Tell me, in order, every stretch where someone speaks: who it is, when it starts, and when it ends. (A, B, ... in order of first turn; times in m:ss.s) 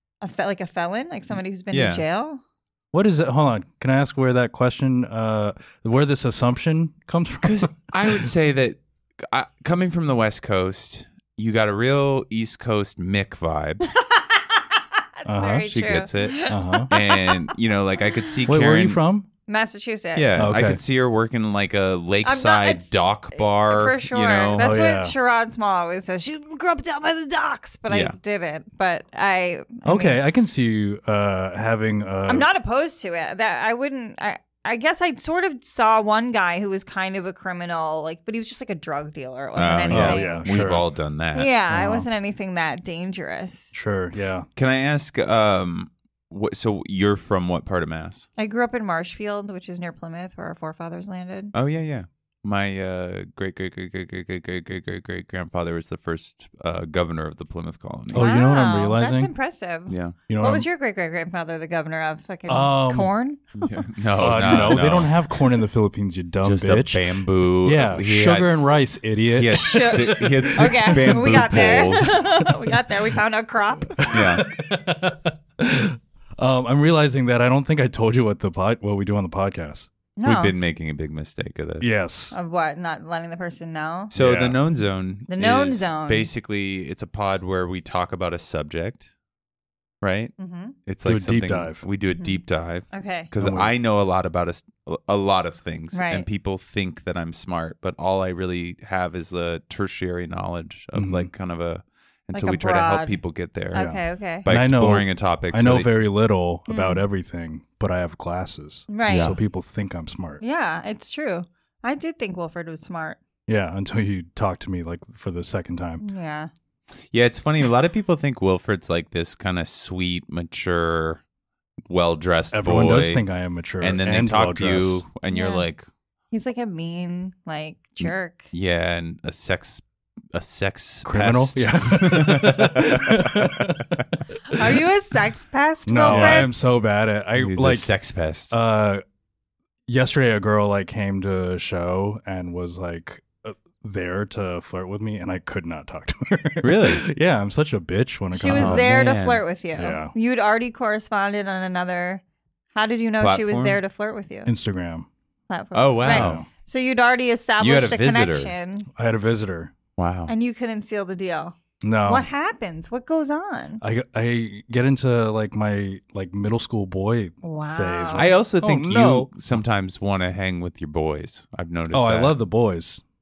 0:00.2-0:02.4 A
0:01.7-0:02.0 B
0:02.9-0:08.3 C
0:07.4-0:13.8 B
0:15.2-0:17.5 A
0:15.3-0:15.7 C
0:15.7-0:19.0 B
0:16.5-0:16.9 C
0:18.5-0:19.3 C
0:19.5-0:20.5 A
0:20.1-0:24.7 B
0:20.4-0:20.8 C
0:22.2-0:30.2 A
0:24.6-0:25.1 C
0:27.9-0:28.1 B
0:29.8-0:32.5 C
0:32.3-0:40.8 A
0:39.6-0:41.5 B
0:39.9-0:40.8 C
0:41.3-0:43.7 A
0:41.7-0:42.1 C
0:43.7-0:44.5 C
0:44.6-0:48.3 B
0:48.4-0:51.5 A
0:51.5-0:58.2 B
0:58.1-0:59.3 C
0:58.1-1:03.6 A
0:59.9-1:00.2 B
1:00.3-1:00.6 C
1:02.5-1:03.1 C
1:03.6-1:05.1 B
1:04.2-1:07.1 C
1:06.4-1:08.6 B
1:07.6-1:11.2 C
1:09.3-1:12.4 B
1:09.6-1:14.2 A
1:14.0-1:19.9 C
1:14.1-1:14.4 B
1:20.2-1:20.5 A
1:20.2-1:21.9 B
1:21.8-1:22.3 C
1:22.3-1:24.1 A
1:24.1-1:29.1 B
1:24.1-1:24.6 C
1:25.3-1:26.3 A
1:30.0-1:30.3 B
1:30.4-1:30.8 A
1:30.8-1:43.9 B
1:31.0-1:31.8 C
1:32.1-1:32.4 A
1:32.9-1:33.3 A
1:33.4-1:33.7 C
1:35.9-1:36.2 A
1:40.9-1:41.3 C
1:42.3-1:43.2 A
1:43.7-1:44.5 A
1:43.7-1:50.4 C
1:44.4-1:45.9 B
1:46.7-1:47.0 A
1:48.9-1:49.3 A
1:49.1-1:49.4 B
1:50.4-1:53.2 A
1:53.5-1:56.0 C
1:56.0-1:56.5 A
1:57.1-2:01.2 B
2:01.9-2:03.2 B
2:02.5-2:05.0 C
2:03.8-2:05.9 B
2:05.3-2:05.6 A
2:06.3-2:08.5 A
2:08.0-2:13.7 B
2:11.0-2:14.0 C
2:14.5-2:16.5 A
2:15.9-2:17.9 C
2:16.0-2:16.5 B
2:17.4-2:18.5 B
2:18.5-2:19.0 C
2:19.9-2:28.9 C
2:26.6-2:27.0 B
2:28.3-2:32.2 A
2:28.5-2:29.4 B
2:29.8-2:30.1 C
2:32.7-2:34.5 A
2:33.2-2:33.8 B
2:34.4-2:35.1 C
2:35.5-2:38.9 A
2:35.7-2:36.4 B
2:36.0-2:36.5 C
2:37.6-2:38.5 B
2:39.0-2:39.7 C
2:40.0-2:40.3 B
2:40.3-2:43.8 A
2:41.8-2:42.2 C
2:43.8-2:49.3 C
2:47.4-2:48.3 A
2:48.1-2:52.4 B
2:51.9-2:53.0 C